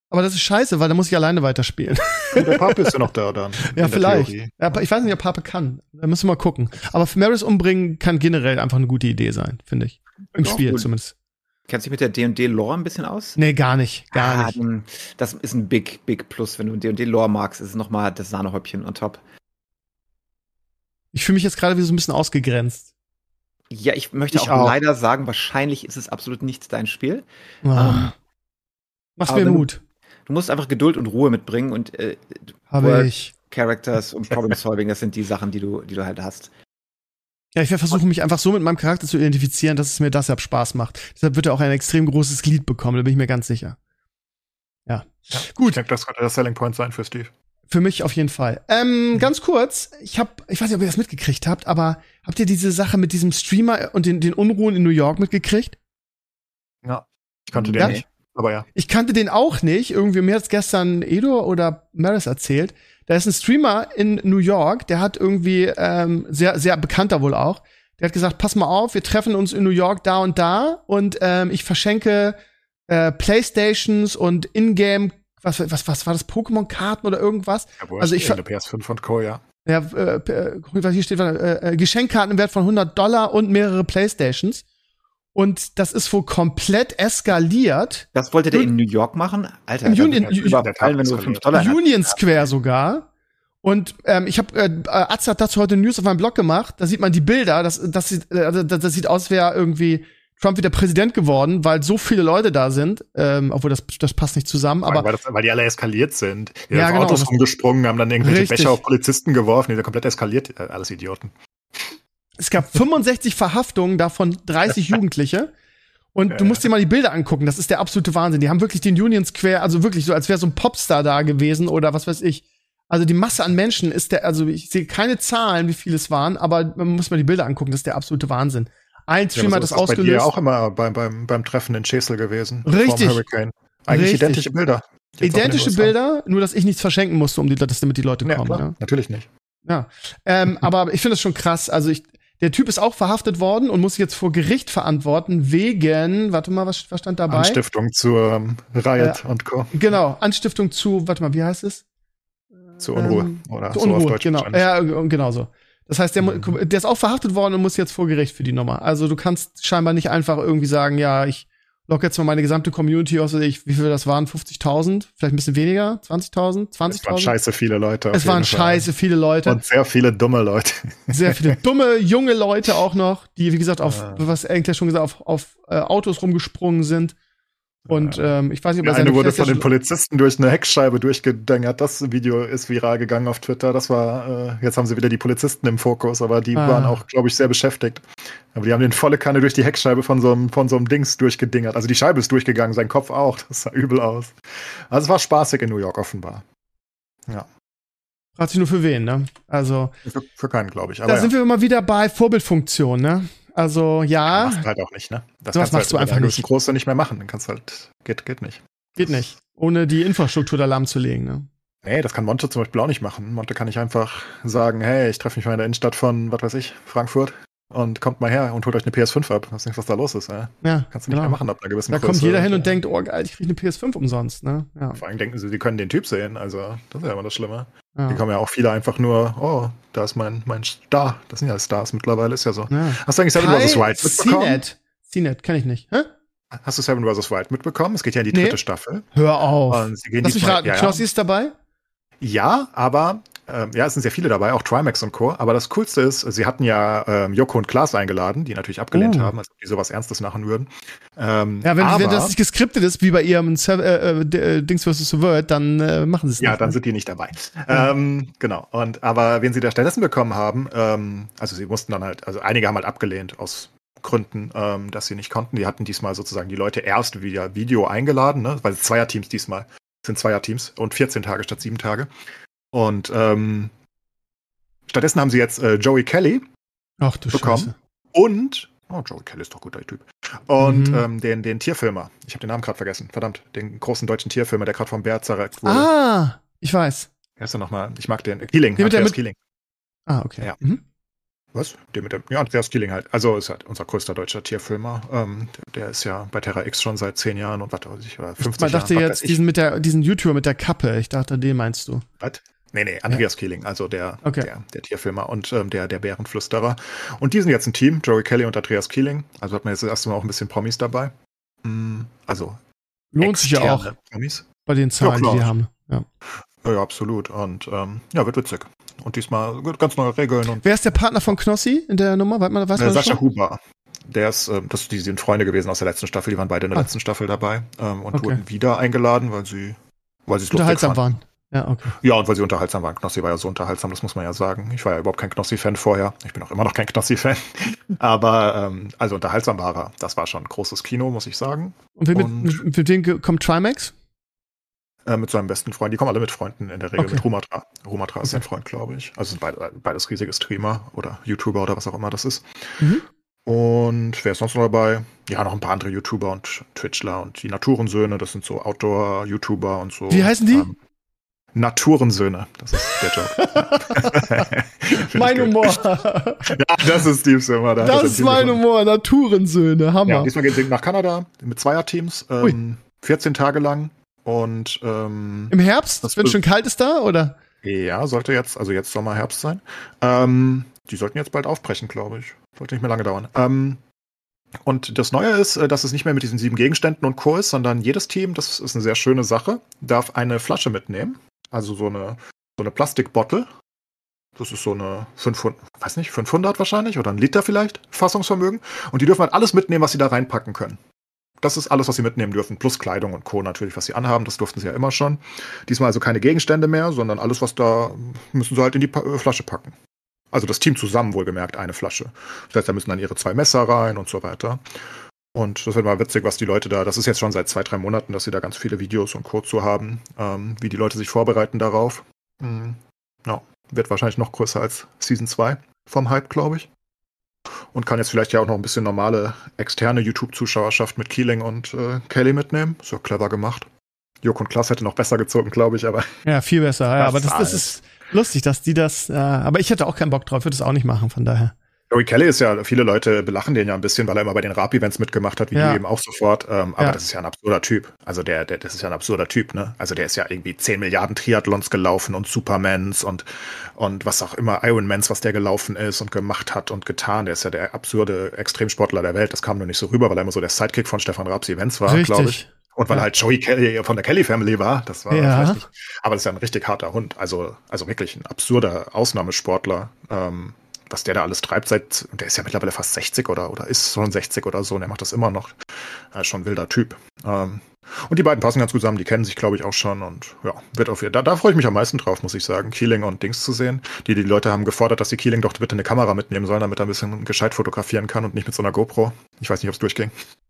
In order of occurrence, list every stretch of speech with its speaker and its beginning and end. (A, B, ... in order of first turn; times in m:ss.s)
0:00.1-0:03.0 A
0:02.3-0:04.8 B
0:03.7-0:11.1 A
0:10.4-0:10.9 C
0:11.7-0:13.4 C
0:13.4-0:14.6 A
0:14.1-0:19.2 C
0:21.1-0:22.8 A
0:23.7-0:28.1 C
0:24.3-0:24.7 B
0:27.6-0:28.1 A
0:29.2-0:29.8 A
0:29.3-0:29.7 C
0:30.3-0:36.5 C
0:32.7-0:33.3 A
0:37.5-0:43.8 A
0:44.9-0:45.8 A
0:45.3-0:47.3 B
0:47.7-0:55.8 A
0:56.8-0:58.6 B
0:57.6-0:58.0 C
0:58.7-1:12.4 A
1:12.9-1:18.4 A
1:17.8-1:19.4 B
1:19.6-1:24.6 A
1:25.3-1:28.7 A
1:28.1-1:32.2 C
1:29.8-1:30.6 A
1:30.2-1:31.6 B
1:31.5-1:33.1 A
1:33.6-1:45.1 A
1:44.8-1:52.0 B
1:46.7-1:47.3 A
1:48.2-1:48.8 A
1:52.4-1:55.5 A
1:56.1-2:10.3 A
1:56.3-1:56.6 B
2:09.3-2:15.9 B
2:12.6-2:13.2 A
2:13.9-2:14.4 A
2:15.2-2:18.7 A
2:18.2-2:19.3 B
2:19.6-2:27.6 A
2:27.3-2:29.7 B
2:29.7-2:31.8 A
2:32.8-2:47.3 A
2:32.8-2:34.6 B
2:36.2-2:36.6 B
2:46.9-2:48.9 B
2:48.1-2:49.6 A
2:49.4-2:51.6 B
2:51.1-2:57.2 A
2:53.8-2:54.2 B
2:57.8-2:58.3 B
2:57.9-2:59.6 A
2:58.8-3:16.4 B
3:06.5-3:07.0 A
3:18.4-3:20.0 A
3:20.0-3:21.3 B
3:21.1-3:24.6 A
3:24.3-3:29.2 B
3:25.5-3:26.4 A
3:29.0-3:31.5 A
3:31.8-3:42.8 B
3:40.6-3:41.4 A
3:41.9-3:45.0 A
3:44.9-3:54.6 B
3:48.0-3:48.2 A
3:52.7-3:56.1 A
3:56.5-3:59.1 B
3:58.3-3:58.6 A
3:59.1-4:01.5 A
3:59.7-4:01.0 B
4:02.2-4:12.3 B
4:08.9-4:09.3 A
4:11.6-4:16.8 A
4:16.4-4:32.1 B
4:32.7-4:33.7 B
4:34.9-4:36.4 B
4:37.0-4:37.7 A
4:37.3-4:45.9 B
4:40.6-4:41.0 A
4:45.6-4:47.1 A
4:47.4-4:49.4 B
4:48.8-4:49.2 A
4:50.1-4:50.8 A
4:51.5-4:59.4 B
4:58.4-5:02.0 A
5:02.2-5:12.6 B
5:04.2-5:04.5 A
5:13.1-5:13.9 A
5:13.2-5:14.4 B
5:14.6-5:16.0 A
5:15.0-5:15.5 B
5:16.6-5:20.7 B
5:20.6-5:23.2 A
5:22.8-5:31.0 B
5:28.1-5:28.4 A
5:30.5-5:31.9 A
5:31.9-5:42.6 B
5:42.0-5:43.9 A
5:45.0-5:52.8 B
5:47.0-5:47.2 A
5:52.8-5:53.0 A
5:53.4-6:00.8 B
6:00.1-6:00.7 A
6:01.5-6:05.9 B
6:02.8-6:06.5 A
6:06.4-6:08.6 B
6:07.8-6:10.3 A
6:10.0-6:16.4 B
6:15.5-6:17.4 A
6:17.6-6:23.8 B
6:24.6-6:33.5 B
6:34.4-6:40.8 B
6:41.4-6:49.7 B
6:50.3-6:54.6 B
6:55.3-7:06.7 B
7:07.7-7:13.7 B
7:14.2-7:16.1 B
7:16.2-7:21.5 A
7:17.0-7:17.8 B
7:21.9-7:55.6 B
7:25.5-7:25.8 A
7:41.9-7:43.0 A
7:45.1-7:45.6 A
7:56.1-8:10.1 B